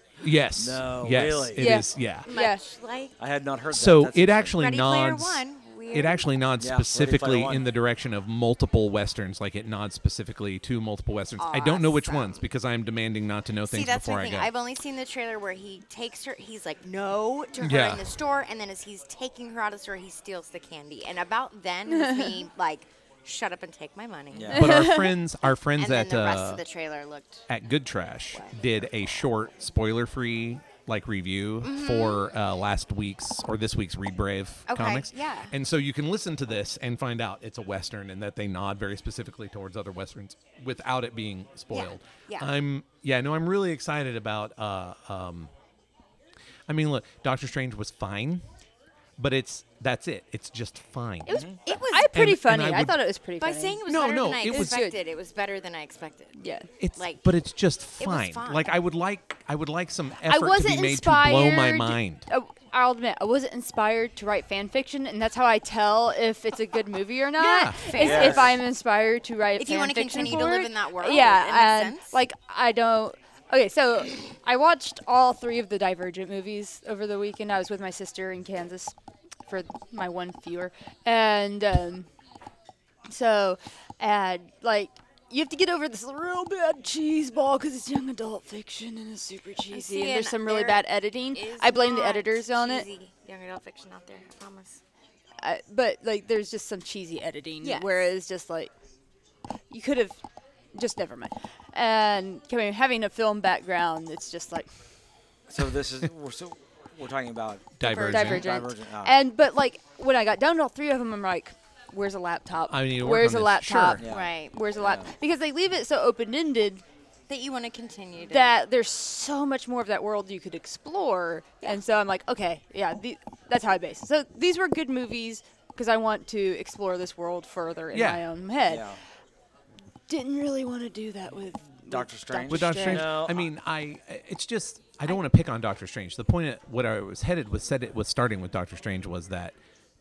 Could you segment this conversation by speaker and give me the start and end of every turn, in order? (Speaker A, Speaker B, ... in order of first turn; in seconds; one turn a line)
Speaker A: 0.2-2.3
Speaker B: 0.6-1.8
Speaker C: 1.6-2.6
Speaker D: 2.2-3.1
Speaker B: 3.2-4.6
Speaker A: 3.7-14.5
Speaker D: 4.5-6.2
Speaker B: 6.6-7.6
Speaker D: 11.4-12.4
Speaker D: 13.7-24.6
Speaker A: 17.6-18.1
Speaker C: 22.0-22.3
Speaker B: 24.3-24.7
Speaker A: 24.5-26.6
Speaker C: 24.5-25.1
Speaker D: 25.8-27.4
Speaker A: 27.5-45.5
Speaker D: 31.6-32.2
Speaker D: 34.7-35.5
Speaker D: 41.7-42.5
Speaker A: 46.7-48.4
Speaker A: 49.2-51.4
Speaker C: 51.3-53.8
Speaker B: 51.3-51.6
Speaker D: 51.6-52.1
Speaker A: 52.1-53.0
Speaker D: 53.4-56.4
Speaker A: 53.9-54.8
Speaker C: 54.5-55.0
Speaker C: 56.4-56.7
Speaker A: 56.8-62.2
Speaker D: 57.0-57.2
Speaker D: 58.0-58.7
Speaker C: 60.2-78.9
Speaker A: 67.4-68.3
Speaker D: 67.8-68.5
Speaker B: 68.0-68.5
Speaker D: 69.6-72.2
Speaker C: 79.5-82.1
Speaker C: 83.1-92.9
Speaker D: 89.7-94.8
Speaker C: 95.4-98.7
Speaker D: 97.6-97.9
Speaker C: 99.7-100.2
Speaker C: 100.7-104.7
Speaker B: 105.5-109.2
Speaker A: 107.8-108.5
Speaker C: 108.0-116.8
Speaker A: 112.7-114.0
Speaker B: 114.0-115.1
Speaker D: 114.0-114.6
Speaker D: 117.3-118.5
Speaker C: 118.3-128.9
Speaker A: 127.9-128.2
Speaker B: 128.7-129.0
Speaker C: 130.1-133.1
Speaker B: 131.9-133.5
Speaker A: 132.5-139.5